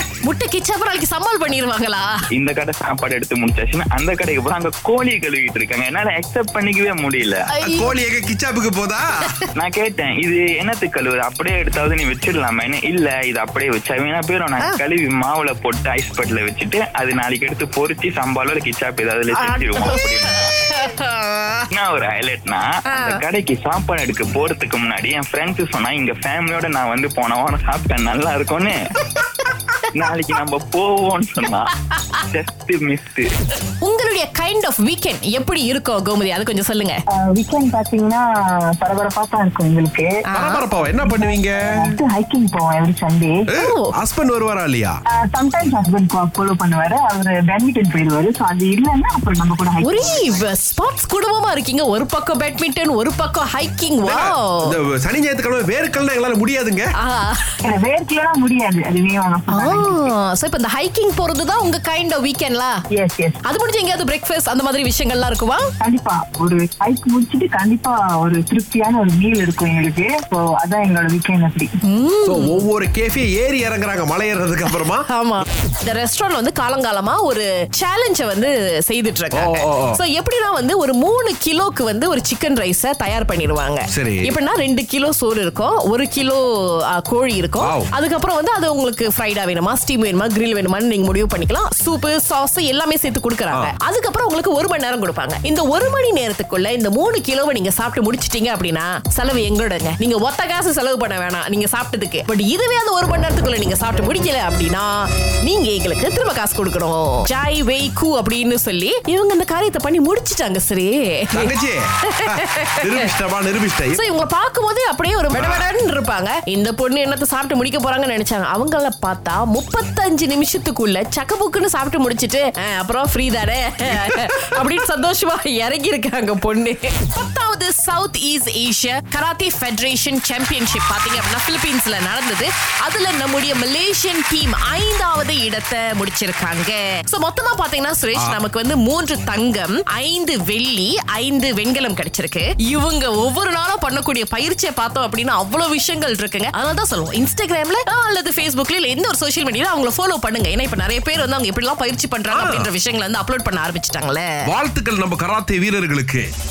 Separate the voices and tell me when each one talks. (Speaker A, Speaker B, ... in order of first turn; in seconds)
Speaker A: 0.2-2.1, 7.5-7.9, 19.4-21.7, 22.9-23.2, 33.8-37.0, 40.3-40.6, 43.5-43.9, 49.8-54.6, 57.0-57.4, 59.5-62.8, 63.5-65.6, 71.9-72.6, 74.7-111.5, 112.1-113.1, 113.9-154.3
Speaker B: 2.3-7.4, 9.6-20.5, 21.7-28.8, 29.9-33.3
Speaker C: 7.6-9.1, 40.3-41.8, 43.5-45.0, 54.0-56.8, 72.2-75.1, 79.3-80.0, 83.9-84.3, 87.6-87.9, 111.3-114.0, 115.3-115.7, 152.3-152.7, 154.5-156.3
Speaker D: 37.2-38.2, 38.8-40.2, 40.8-43.5, 45.1-50.4, 57.6-60.1, 62.9-63.4, 65.8-71.7